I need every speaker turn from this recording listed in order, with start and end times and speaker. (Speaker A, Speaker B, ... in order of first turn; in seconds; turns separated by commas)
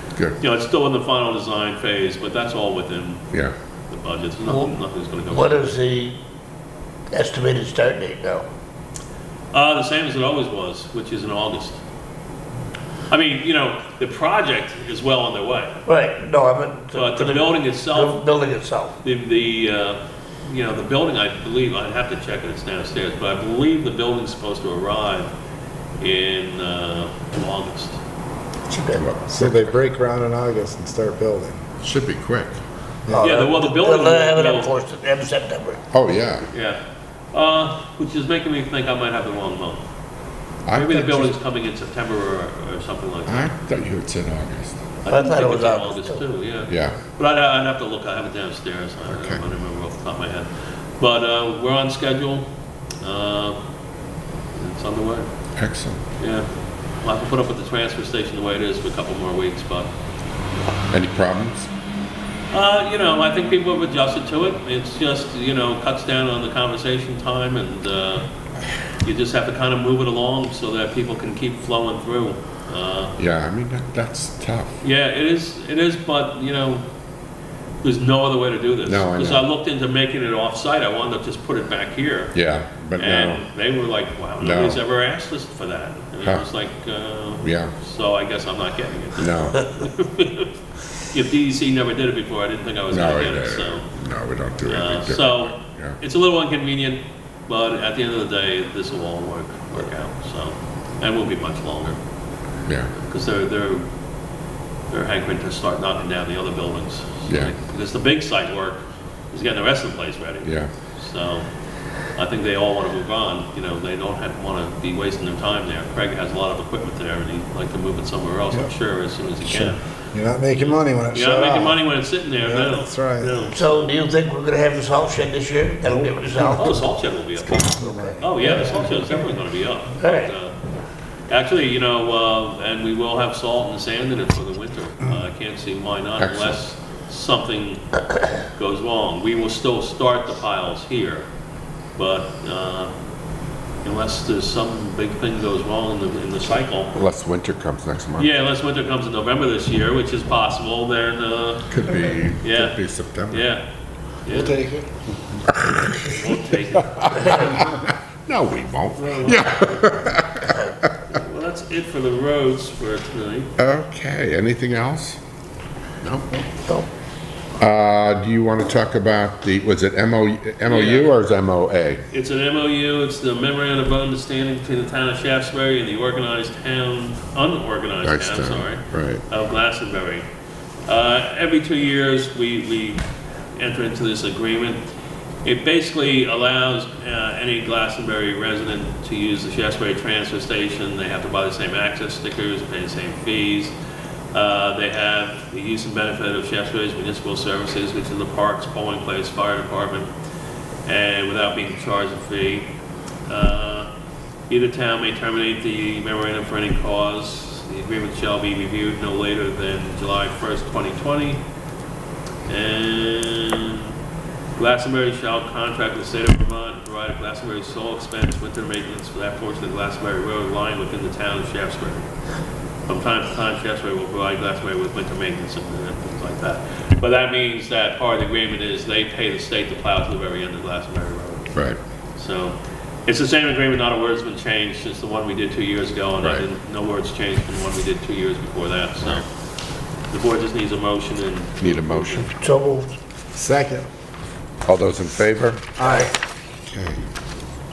Speaker A: 0.4-3.2, Speaker A: 3.9-5.7, Speaker B: 5.3-6.2, Speaker B: 7.1-8.4, Speaker A: 9.5-11.8, Speaker A: 13.1-15.8, Speaker B: 15.9-18.9, Speaker A: 16.9-18.3, Speaker A: 19.0-25.3, Speaker A: 26.0-28.0, Speaker B: 28.7-29.0, Speaker C: 28.8-29.8, Speaker D: 29.2-31.6, Speaker C: 31.8-32.6, Speaker D: 33.1-33.3, Speaker B: 33.1-35.8, Speaker A: 33.2-34.7, Speaker C: 35.9-36.5, Speaker A: 36.5-36.8, Speaker A: 37.3-39.8, Speaker C: 40.7-41.3, Speaker A: 40.7-43.5, Speaker C: 43.3-44.8, Speaker A: 45.0-50.5, Speaker B: 45.1-46.2, Speaker C: 46.7-47.0, Speaker C: 49.1-49.4, Speaker A: 51.0-52.5, Speaker A: 53.0-53.6, Speaker A: 54.5-55.3, Speaker C: 55.6-56.0, Speaker A: 56.2-56.5, Speaker A: 57.0-59.9, Speaker C: 60.9-61.7, Speaker A: 62.5-68.3, Speaker A: 69.0-73.1, Speaker C: 73.2-74.7, Speaker A: 74.8-76.8, Speaker A: 77.8-82.3, Speaker C: 78.8-79.4, Speaker C: 82.3-83.4, Speaker A: 83.0-90.5, Speaker C: 84.4-84.8, Speaker C: 87.4-87.7, Speaker C: 89.2-89.6, Speaker A: 91.0-93.9, Speaker C: 92.9-96.0, Speaker A: 94.7-102.0, Speaker C: 102.7-102.9, Speaker A: 102.9-103.8, Speaker A: 104.9-108.8, Speaker C: 107.3-107.5, Speaker A: 109.3-111.5, Speaker C: 110.4-110.7, Speaker A: 112.1-119.8, Speaker D: 119.4-123.5, Speaker A: 120.6-123.8, Speaker B: 123.5-126.8, Speaker D: 126.2-126.6, Speaker A: 126.6-130.6, Speaker D: 127.4-128.3, Speaker B: 127.8-128.9, Speaker B: 130.0-130.3, Speaker A: 131.3-137.8, Speaker C: 136.2-136.6, Speaker A: 138.5-141.2, Speaker A: 142.0-142.9, Speaker A: 143.8-146.9, Speaker C: 146.9-148.3, Speaker A: 148.2-151.8, Speaker C: 151.7-153.5, Speaker A: 152.4-152.8, Speaker A: 153.3-153.6, Speaker A: 154.2-154.6, Speaker D: 154.3-155.0, Speaker C: 155.6-156.3, Speaker A: 155.9-157.6, Speaker C: 157.0-160.9, Speaker A: 158.9-160.0, Speaker A: 161.1-163.5, Speaker C: 163.6-165.2, Speaker C: 166.0-166.3, Speaker C: 167.6-172.0, Speaker A: 170.6-171.1, Speaker A: 172.1-180.2, Speaker C: 178.0-179.2, Speaker A: 180.9-184.8, Speaker A: 185.4-193.7, Speaker A: 194.3-200.1, Speaker A: 200.9-202.7, Speaker A: 203.3-203.9, Speaker A: 204.5-211.4, Speaker A: 212.5-213.9, Speaker A: 214.6-222.1, Speaker A: 222.9-231.6, Speaker A: 232.2-239.3, Speaker C: 236.2-236.5, Speaker A: 240.1-242.3, Speaker C: 241.6-242.3, Speaker B: 242.4-242.9, Speaker D: 243.3-243.9, Speaker C: 244.7-245.7, Speaker D: 245.8-246.1, Speaker B: 245.8-246.1, Speaker C: 246.7-247.0